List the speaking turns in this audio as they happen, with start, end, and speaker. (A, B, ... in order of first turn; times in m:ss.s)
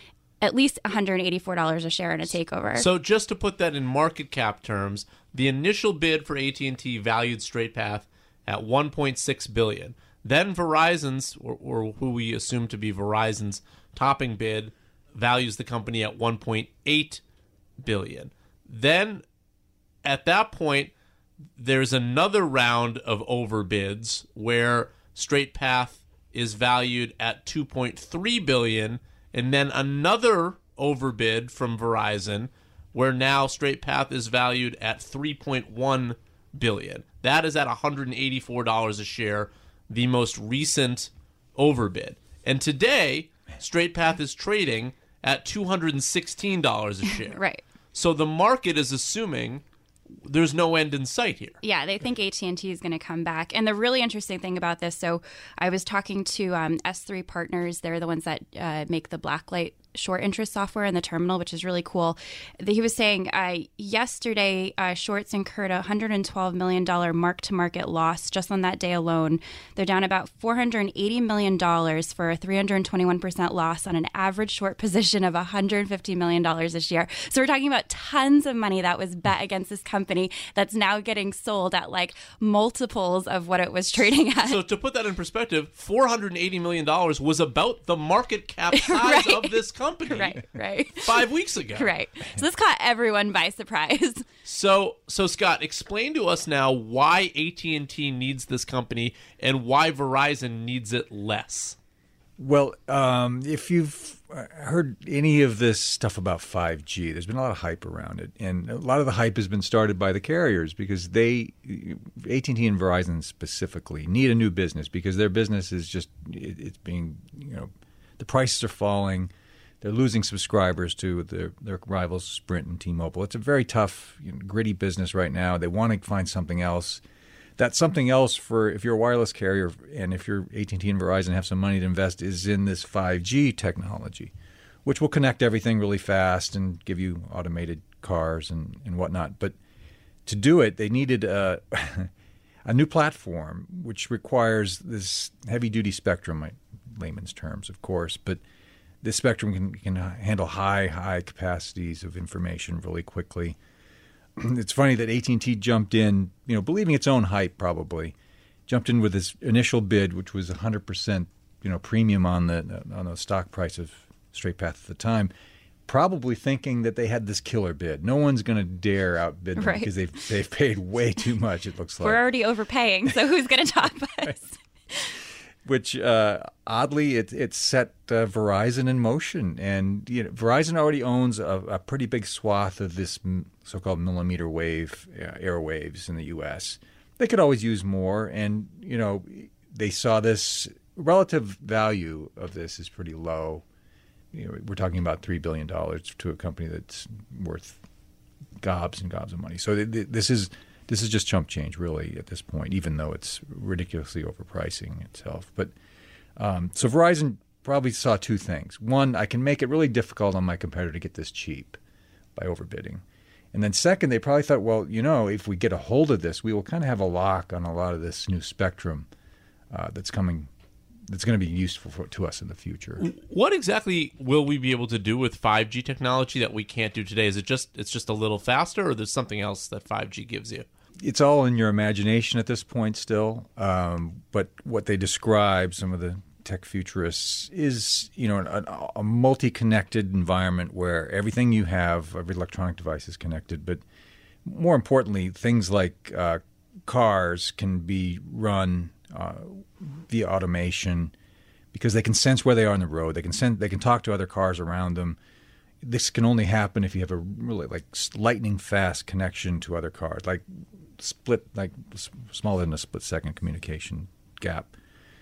0:00.4-0:02.8 A
0:02.8-0:17.2 B
0:17.8-0:19.2 B
0:20.0-0:20.9 B
0:21.6-0:47.4 B
0:47.2-0:47.6 A
0:47.9-0:49.6 B
0:50.2-0:51.6 B
0:51.6-1:24.6 A
1:24.4-1:30.4 B
1:28.7-1:34.2 A
1:31.0-1:31.9 B
1:34.4-1:41.8 B
1:42.4-2:07.0 C
2:07.6-2:14.3 C
2:14.8-2:19.5 C
2:20.2-2:22.1 C
2:22.6-2:28.4 C
2:29.0-2:33.6 C
2:34.4-2:38.1 C
2:38.7-2:45.3 C
2:45.9-2:52.2 C
2:49.6-2:49.9 A
2:52.0-2:54.6 A
2:55.6-3:13.6 C
3:14.3-3:17.8 C
3:18.6-3:25.7 C
3:26.4-3:31.8 C
3:32.4-3:39.1 C
3:39.7-3:40.5 C
3:41.1-3:43.0 C
3:43.0-3:50.6 B
3:51.0-4:03.8 C
4:04.4-4:11.1 C
4:11.7-4:15.2 C
4:15.8-4:24.7 C